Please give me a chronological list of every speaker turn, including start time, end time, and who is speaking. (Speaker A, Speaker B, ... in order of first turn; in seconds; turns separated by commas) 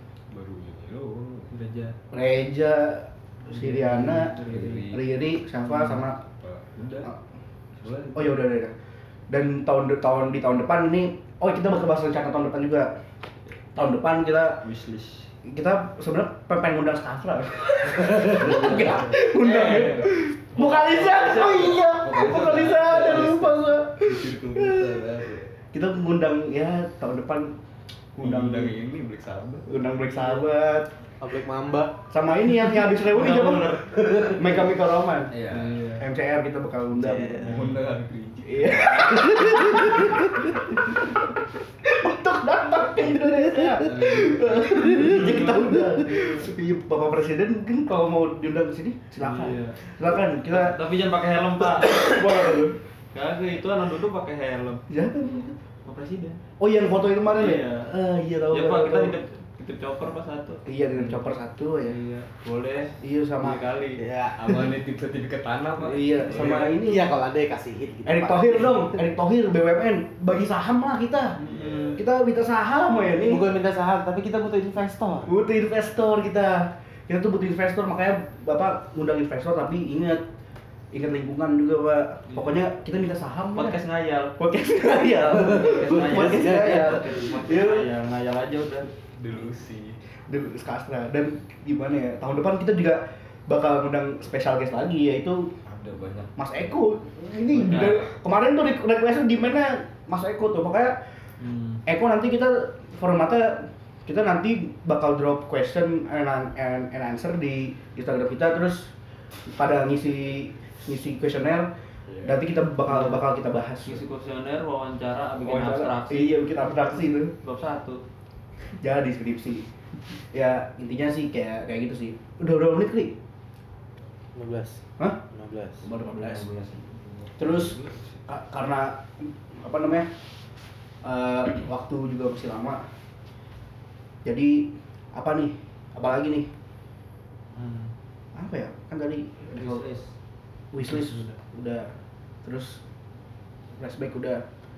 Speaker A: 0.3-1.5, Speaker B: 1.5-1.9, Speaker C: 2.1-6.2, Speaker B: 3.5-4.8, Speaker A: 4.3-5.1, Speaker A: 6.2-7.1, Speaker A: 7.8-8.4, Speaker C: 8.1-8.7, Speaker C: 9.3-12.9, Speaker C: 13.8-14.7, Speaker A: 14.6-15.3, Speaker C: 15.4-25.0, Speaker A: 18.0-20.1, Speaker B: 19.5-19.9, Speaker B: 20.6-21.8, Speaker A: 21.3-25.5, Speaker C: 25.7-27.6, Speaker C: 28.1-28.8, Speaker A: 28.2-29.7, Speaker C: 29.6-30.9, Speaker D: 31.2-32.0, Speaker C: 32.1-35.4, Speaker B: 33.1-33.9, Speaker D: 33.9-34.5, Speaker A: 35.3-35.9, Speaker B: 35.5-36.0, Speaker C: 36.0-37.6, Speaker D: 37.0-37.5, Speaker A: 37.4-39.2, Speaker C: 38.4-50.8, Speaker A: 43.8-45.4, Speaker B: 45.0-46.4, Speaker B: 49.2-49.8, Speaker B: 50.5-52.2, Speaker C: 51.6-52.8, Speaker B: 53.1-54.8, Speaker C: 54.9-55.5, Speaker B: 55.8-56.4, Speaker C: 56.6-59.1, Speaker B: 57.3-57.9, Speaker B: 58.5-61.2, Speaker C: 60.6-62.0, Speaker B: 61.8-64.0, Speaker C: 63.0-63.6, Speaker D: 64.0-64.8, Speaker A: 64.3-66.8, Speaker C: 65.8-67.1, Speaker D: 66.3-69.0, Speaker C: 68.0-71.4, Speaker B: 71.4-72.0, Speaker A: 71.4-72.0, Speaker C: 72.0-73.5, Speaker D: 73.1-75.3, Speaker C: 75.2-80.2, Speaker C: 80.9-83.8, Speaker B: 83.5-84.3, Speaker C: 84.4-87.9, Speaker B: 85.3-88.9, Speaker D: 85.3-87.0, Speaker A: 89.2-90.0, Speaker C: 90.3-95.5, Speaker A: 95.7-96.6, Speaker C: 96.4-101.0, Speaker B: 97.5-98.0, Speaker B: 101.4-101.8, Speaker C: 101.9-108.9, Speaker C: 109.5-111.7, Speaker A: 112.1-112.5, Speaker C: 112.2-114.0, Speaker B: 112.9-113.2, Speaker B: 113.8-116.4, Speaker C: 115.4-117.3, Speaker B: 117.3-118.0, Speaker C: 118.8-119.7, Speaker C: 120.3-123.2, Speaker D: 124.3-125.9, Speaker C: 125.8-126.5, Speaker B: 126.2-126.9, Speaker A: 127.2-128.2, Speaker C: 127.4-130.1, Speaker C: 131.0-132.8, Speaker C: 134.2-136.5, Speaker B: 137.5-137.9, Speaker C: 138.3-140.0, Speaker B: 139.5-140.1, Speaker C: 140.7-141.9, Speaker B: 140.8-141.3, Speaker C: 142.4-142.8, Speaker C: 143.8-144.4